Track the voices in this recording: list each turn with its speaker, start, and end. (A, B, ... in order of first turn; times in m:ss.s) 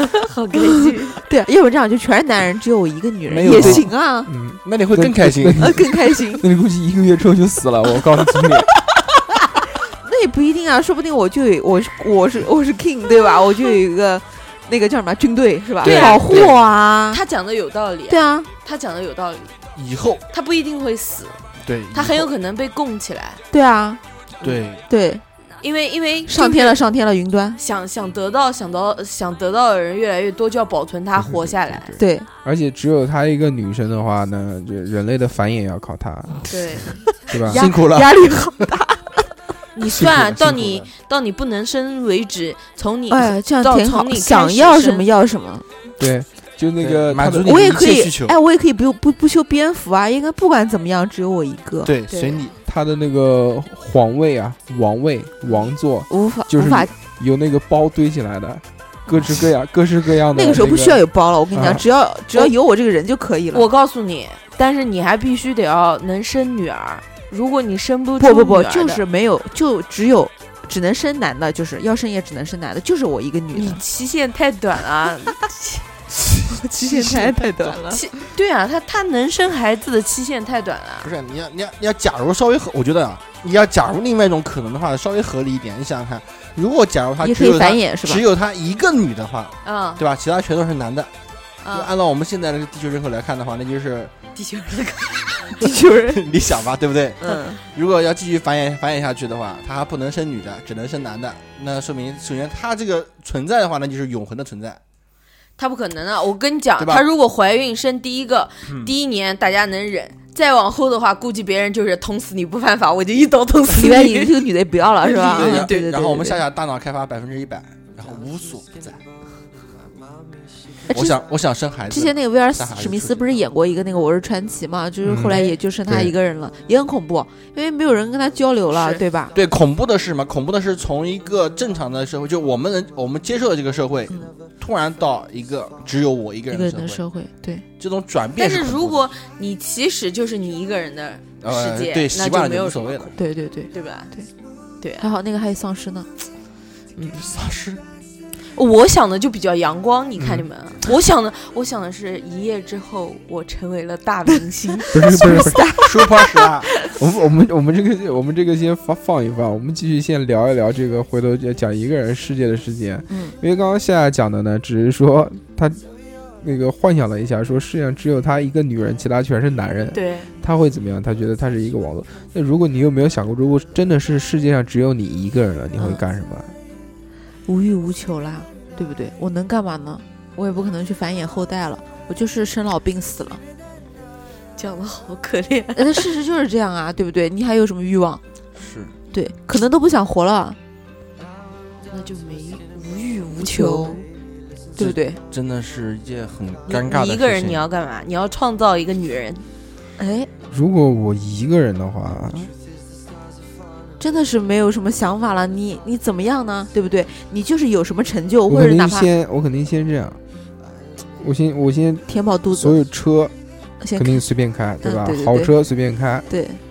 0:00.2-0:01.2 A
0:01.1-0:04.3 B
0:03.3-0:03.9 C
0:03.5-0:08.7 D
0:04.6-0:05.7 C
0:05.6-0:06.4 B
0:09.9-0:17.2 B
0:15.8-0:16.6 C
0:15.8-0:16.5 A
0:17.1-0:19.5 A
0:18.1-0:18.5 B
0:19.8-0:20.2 C
0:20.3-0:21.4 A
0:21.6-0:22.3 C
0:21.9-0:23.4 A
0:23.5-0:24.0 B
0:24.4-0:24.8 C
0:24.9-0:25.2 B
0:25.6-0:26.8 A
0:26.3-0:27.6 B
0:27.6-0:32.0 A
0:31.2-0:36.5 D
0:32.0-0:32.3 B
0:36.5-0:37.7 A
0:37.3-0:37.6 D
0:37.5-0:38.3 C
0:37.5-0:39.2 B
0:39.8-0:45.1 A
0:39.9-0:40.9 C
0:43.1-0:45.7 B
0:46.0-0:47.6 D
0:46.8-0:48.4 C
0:47.5-0:51.9 B
0:51.8-0:52.5 C
0:52.1-0:52.4 A
0:52.7-1:01.9 D
0:56.1-0:56.9 B
1:00.3-1:03.7 B
1:03.5-1:09.0 A
1:08.2-1:13.8 B
1:13.5-1:15.9 A
1:16.4-1:18.1 B
1:17.0-1:17.4 C
1:17.8-1:21.1 A
1:21.0-1:31.1 C
1:27.2-1:28.2 B
1:29.6-1:30.0 A
1:31.6-1:31.9 A
1:31.7-1:34.1 C
1:34.4-1:35.5 A
1:35.6-1:36.2 B
1:36.1-1:44.8 C
1:37.2-1:37.6 B
1:45.6-1:54.4 A
1:53.7-1:56.4 B
1:55.0-1:59.0 C
1:55.0-1:55.9 A
2:00.9-2:01.2 B
2:00.9-2:03.3 C
2:01.9-2:09.4 B
2:05.0-2:06.1 D
2:08.7-2:09.0 A
2:09.3-2:17.0 C
2:16.5-2:17.6 B
2:17.8-2:19.0 C
2:18.4-2:23.1 A
2:21.4-2:23.1 C
2:23.2-2:24.3 B
2:23.7-2:24.1 A
2:25.0-2:26.1 B
2:27.1-2:27.8 C
2:28.6-2:34.9 A
2:30.2-2:30.5 D
2:34.9-2:37.0 B
2:34.9-2:35.7 D
2:35.8-2:36.7 C
2:37.0-2:45.8 D
2:43.1-2:43.4 B
2:46.4-2:56.5 D
2:49.9-2:50.3 A
2:57.5-3:03.4 B
3:04.6-3:06.1 A
3:05.8-3:08.2 B
3:08.6-3:08.9 C
3:09.1-3:10.6 B
3:11.9-3:14.1 A
3:13.3-3:14.0 B
3:14.8-3:15.2 B
3:14.8-3:17.6 C
3:16.7-3:19.4 A
3:20.0-3:20.3 B
3:20.5-3:22.5 D
3:24.0-3:29.1 B
3:28.5-3:30.2 D
3:31.2-3:33.3 D
3:32.1-3:32.8 B
3:33.8-3:34.2 B
3:34.0-3:36.3 D
3:34.8-3:35.5 B
3:36.3-3:36.6 B